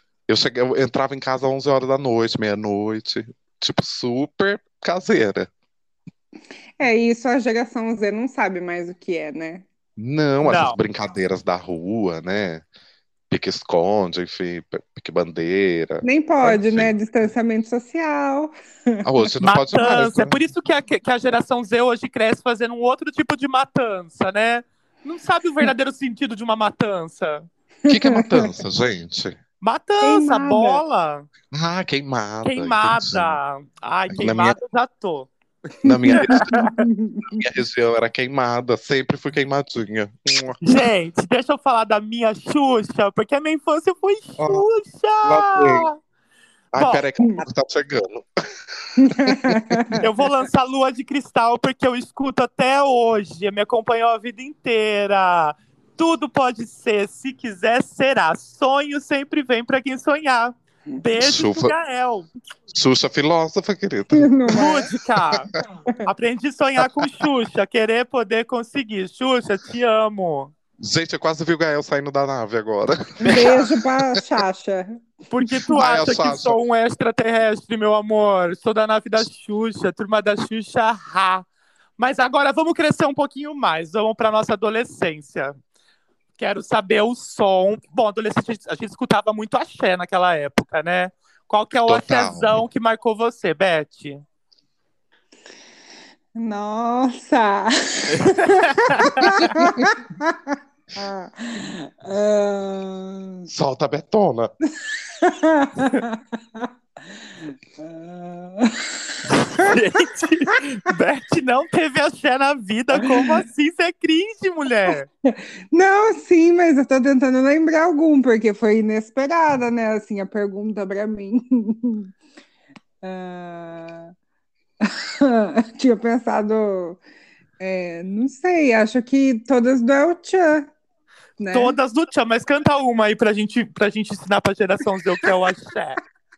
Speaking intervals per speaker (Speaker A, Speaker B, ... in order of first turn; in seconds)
Speaker A: 0.3-5.5, 10.0-12.6, 13.3-16.9, 19.0-20.4, 27.9-29.4, 31.5-33.4, 34.1-34.6, 35.8-36.7, 37.3-40.6, 44.4-44.6, 45.2-45.9, 46.7-48.2, 48.8-49.9, 61.2-61.7, 62.7-64.3, 70.8-74.0, 75.7-76.6, 91.9-92.6, 99.4-99.9, 103.5-104.5
Speaker B: 6.8-9.7, 16.0-19.0, 27.9-28.5, 30.0-30.8, 35.9-37.4, 49.0-50.0, 64.1-64.9, 73.2-75.0, 96.3-103.5, 104.8-106.7, 107.8-110.0, 115.2-122.1, 123.0-124.1, 124.8-127.0, 127.6-130.7, 131.4-131.8
Speaker C: 10.4-10.8, 19.4-27.5, 29.6-31.3, 32.4-35.3, 36.1-36.8, 40.6-46.0, 46.8-47.0, 50.0-62.3, 64.5-65.5, 66.0-70.5, 73.2-73.6, 75.3-81.5, 82.0-85.5, 86.4-94.2, 98.1-99.6, 109.3-115.1, 131.5-136.0